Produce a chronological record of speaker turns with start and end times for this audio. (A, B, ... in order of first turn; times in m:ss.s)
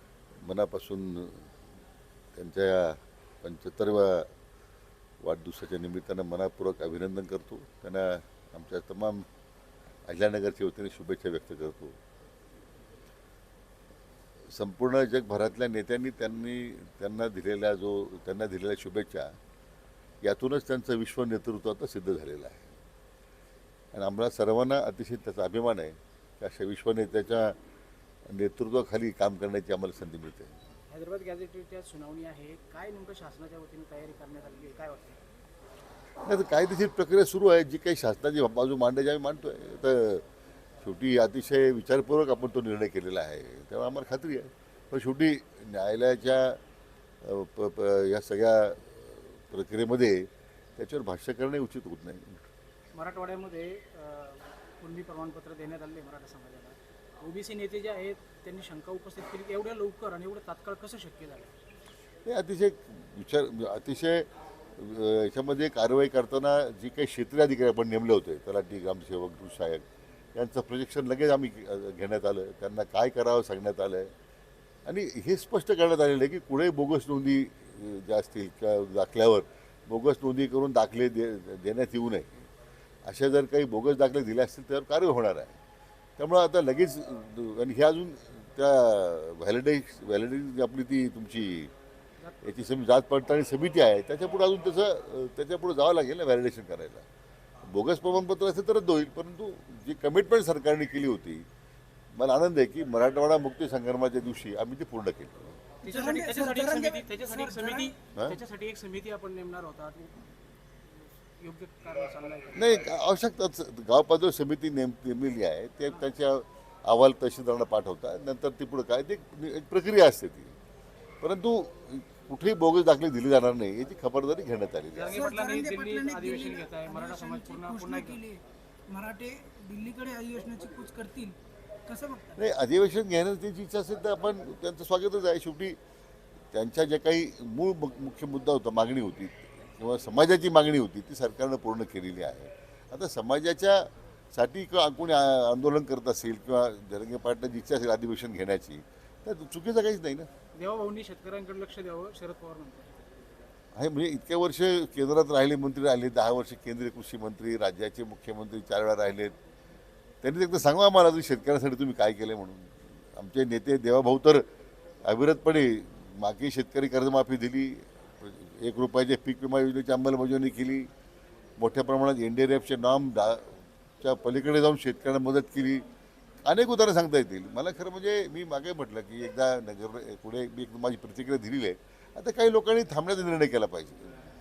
0:00.4-0:01.5 A
0:02.4-0:04.3 A
0:05.2-0:09.3 A
0:10.1-0:12.0 A
0:14.5-0:19.4 A
0:20.2-0:22.7 A
0:23.9-0:27.6 A
0:28.3-0:30.6 A
0:30.9-0:35.2 B
0:36.2-0:40.2 A
0:40.8-0:46.6 A
0:47.2-0:52.4 A
0:52.9-1:01.6 B
1:02.2-1:09.8 A
1:10.4-1:14.1 A
1:14.9-1:22.5 A
1:23.0-1:25.6 A
1:26.2-1:31.7 A
1:32.2-1:32.6 B
1:32.4-1:37.1 A
1:37.6-1:41.5 A
1:42.1-1:45.6 A
1:45.8-1:47.9 C
1:45.8-1:53.0 B
1:52.6-2:00.5 A
2:01.2-2:05.2 A
2:05.0-2:08.2 B
2:05.1-2:12.5 C
2:12.4-2:15.8 A
2:16.5-2:30.3 A
2:30.6-2:33.0 B
2:33.8-2:39.4 A
2:40.2-2:44.4 A
2:45.0-2:50.9 A
2:51.6-2:55.8 A
2:56.4-3:04.2 A